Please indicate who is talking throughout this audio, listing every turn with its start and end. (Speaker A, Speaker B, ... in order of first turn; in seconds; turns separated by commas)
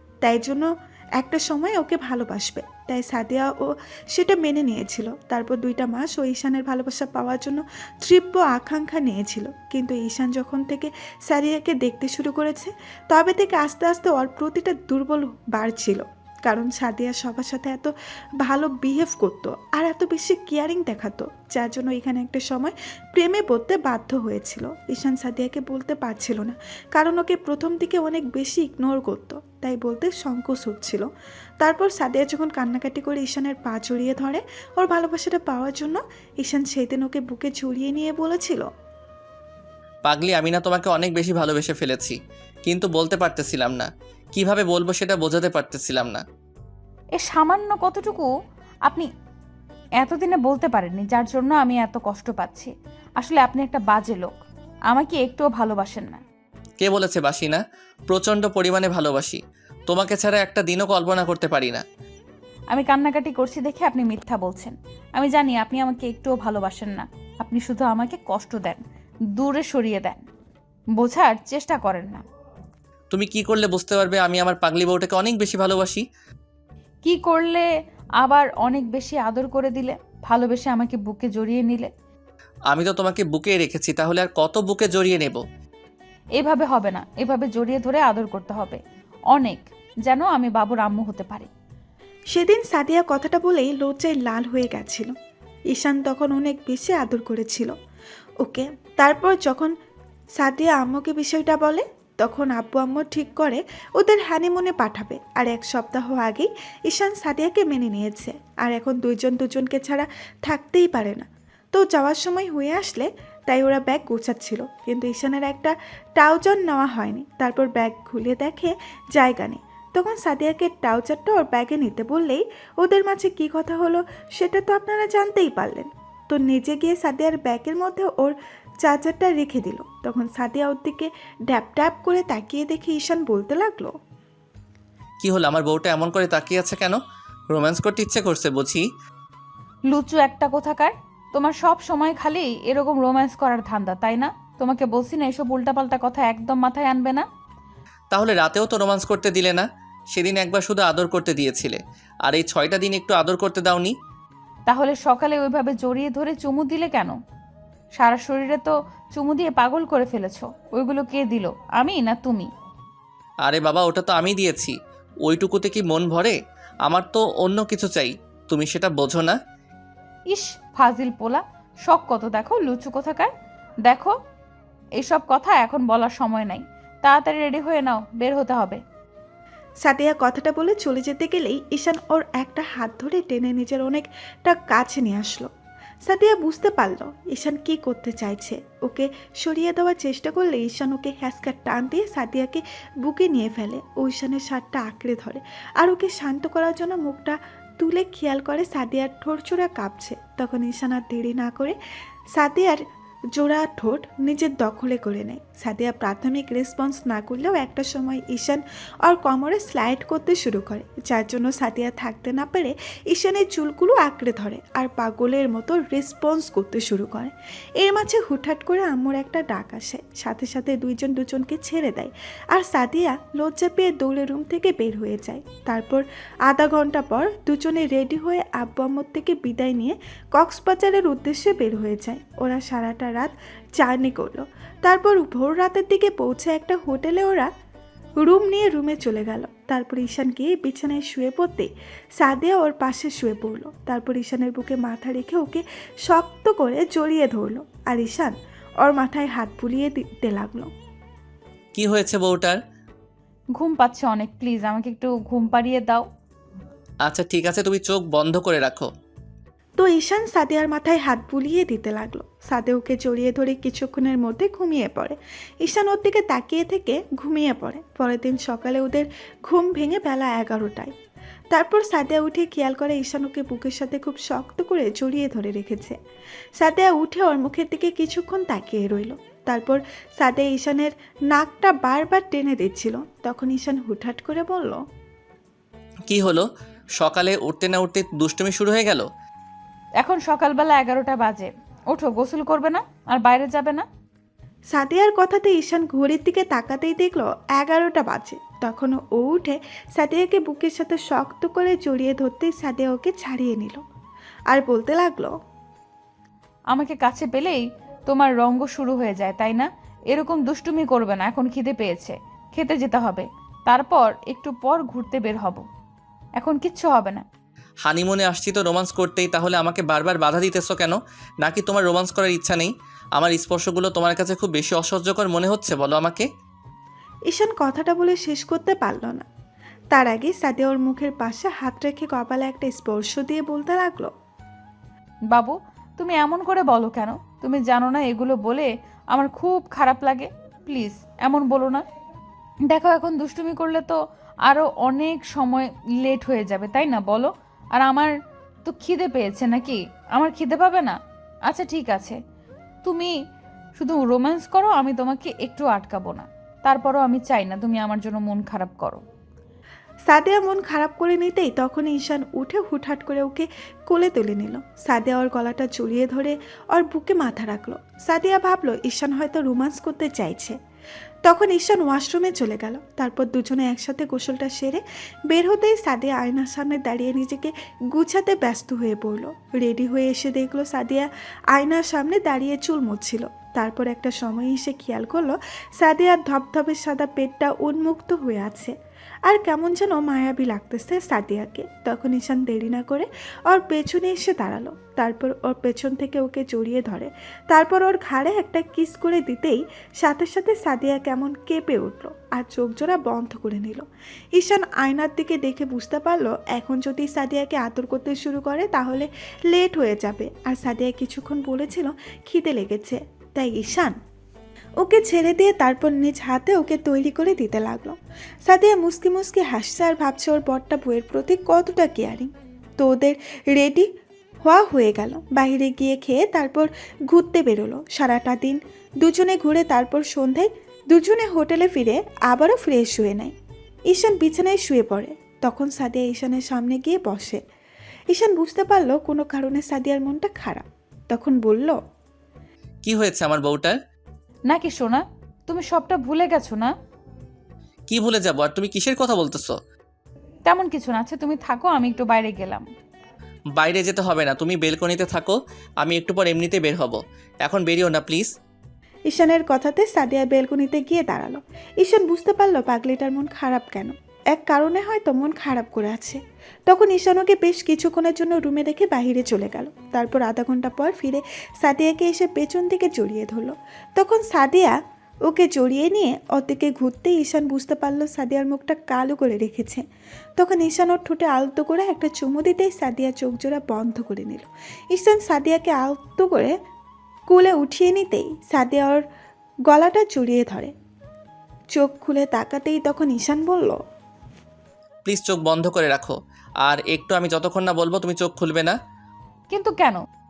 Speaker A: 0.2-17.9, Speaker A: 18.4-31.1, Speaker A: 31.6-38.7, Speaker B: 40.0-46.2, Speaker C: 47.2-48.3, Speaker C: 50.0-54.3, Speaker C: 54.9-56.2, Speaker B: 56.8-61.8, Speaker C: 62.7-68.8, Speaker C: 69.4-70.3, Speaker C: 71.0-72.2, Speaker B: 73.1-76.0, Speaker C: 77.0-77.7, Speaker C: 78.2-81.9, Speaker B: 82.7-85.4, Speaker C: 86.4-88.8, Speaker C: 89.3-91.5, Speaker A: 92.3-95.1, Speaker A: 95.7-97.7, Speaker A: 98.4-99.7, Speaker A: 100.4-133.9, Speaker B: 135.2-137.0, Speaker B: 137.5-138.8, Speaker C: 139.9-147.2, Speaker B: 148.1-153.9, Speaker C: 154.7-157.2, Speaker C: 158.0-162.5, Speaker B: 163.4-169.4, Speaker C: 170.3-173.3, Speaker C: 173.9-174.1, Speaker C: 175.0-178.8, Speaker A: 179.8-185.5, Speaker A: 186.1-201.8, Speaker A: 202.3-202.8, Speaker A: 203.3-237.5, Speaker A: 238.2-250.7, Speaker B: 251.8-252.6, Speaker C: 253.6-256.1, Speaker B: 257.1-258.9, Speaker A: 259.8-270.9, Speaker A: 271.5-275.9, Speaker A: 276.6-284.8, Speaker B: 286.1-286.5, Speaker B: 287.0-289.1, Speaker C: 290.0-293.9, Speaker A: 294.7-303.8, Speaker A: 304.5-305.3, Speaker C: 306.7-315.6, Speaker C: 316.4-317.2, Speaker B: 317.9-326.3, Speaker A: 327.3-329.3, Speaker A: 329.9-334.1, Speaker C: 335.3-341.8, Speaker C: 342.7-348.1, Speaker C: 348.6-352.2, Speaker C: 352.9-353.1, Speaker C: 353.8-359.0, Speaker A: 360.1-370.6, Speaker A: 371.3-388.7, Speaker A: 389.3-403.8, Speaker A: 404.4-413.9, Speaker A: 414.8-423.9, Speaker A: 424.4-433.3, Speaker A: 433.9-437.4, Speaker A: 438.1-441.8, Speaker B: 442.8-443.8, Speaker C: 444.5-446.7, Speaker B: 447.9-449.6, Speaker C: 450.4-452.7, Speaker B: 453.6-458.3, Speaker A: 459.1-474.8, Speaker A: 475.3-479.8, Speaker A: 480.4-486.5, Speaker A: 487.3-489.0, Speaker A: 489.7-490.7, Speaker A: 491.7-493.8, Speaker B: 495.1-498.8, Speaker C: 499.5-500.1